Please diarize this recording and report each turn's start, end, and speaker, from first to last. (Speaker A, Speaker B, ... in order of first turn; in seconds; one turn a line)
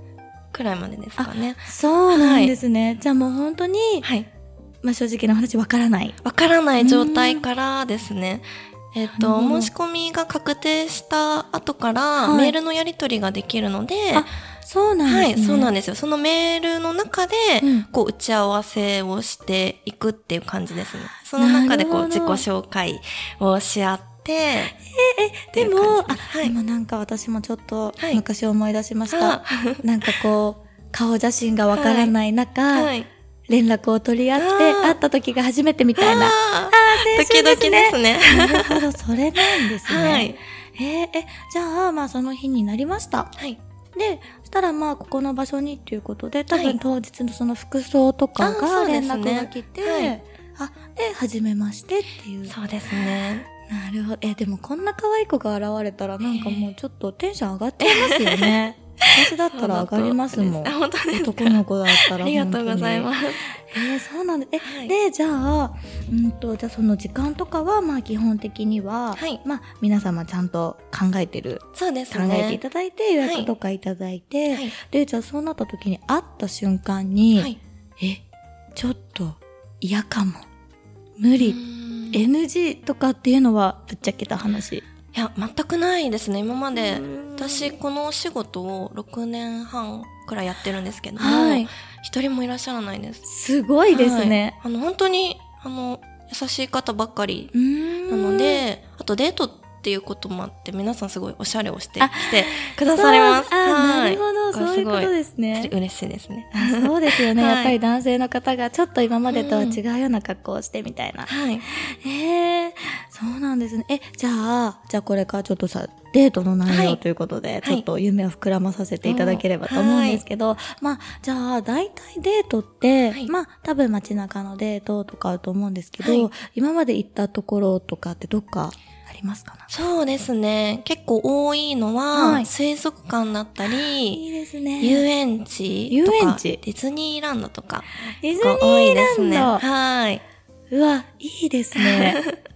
Speaker A: 0.5-2.5
Speaker B: 1.2-4.1
Speaker B: 4.8-6.2
Speaker A: 6.2-14.3
Speaker B: 6.8-7.5
Speaker B: 9.1-9.7
Speaker B: 12.2-12.6
Speaker B: 14.1-15.7
Speaker A: 15.1-24.7
Speaker B: 17.6-17.9
Speaker B: 21.4-22.4
Speaker B: 24.8-32.9
Speaker A: 25.5-26.6
Speaker A: 29.1-29.8
Speaker A: 31.7-32.1
Speaker A: 32.7-33.1
Speaker B: 33.5-43.3
Speaker A: 34.4-35.0
Speaker A: 36.0-38.8
Speaker A: 39.6-40.4
Speaker B: 44.0-78.2
Speaker A: 46.5-46.8
Speaker A: 48.4-50.1
Speaker A: 52.5-53.5
Speaker A: 56.2-56.7
Speaker A: 57.8-58.6
Speaker A: 59.5-63.6
Speaker A: 64.6-64.9
Speaker A: 71.8-72.6
Speaker A: 73.2-73.5
Speaker A: 74.5-74.8
Speaker B: 78.8-80.5
Speaker B: 81.2-81.6
Speaker A: 81.4-82.2
Speaker B: 82.1-84.8
Speaker A: 85.1-93.2
Speaker B: 86.7-87.7
Speaker B: 91.2-91.7
Speaker B: 93.3-94.6
Speaker A: 93.9-97.5
Speaker B: 97.5-98.6
Speaker A: 98.1-107.7
Speaker B: 102.0-105.7
Speaker B: 106.5-129.7
Speaker A: 109.3-109.8
Speaker A: 111.3-111.6
Speaker A: 116.7-117.0
Speaker A: 119.0-120.2
Speaker A: 126.0-126.3
Speaker A: 129.7-134.3
Speaker B: 132.1-132.5
Speaker B: 133.7-135.1
Speaker A: 134.8-140.2
Speaker B: 135.9-136.6
Speaker B: 138.2-139.7
Speaker B: 140.7-142.2
Speaker A: 141.8-142.4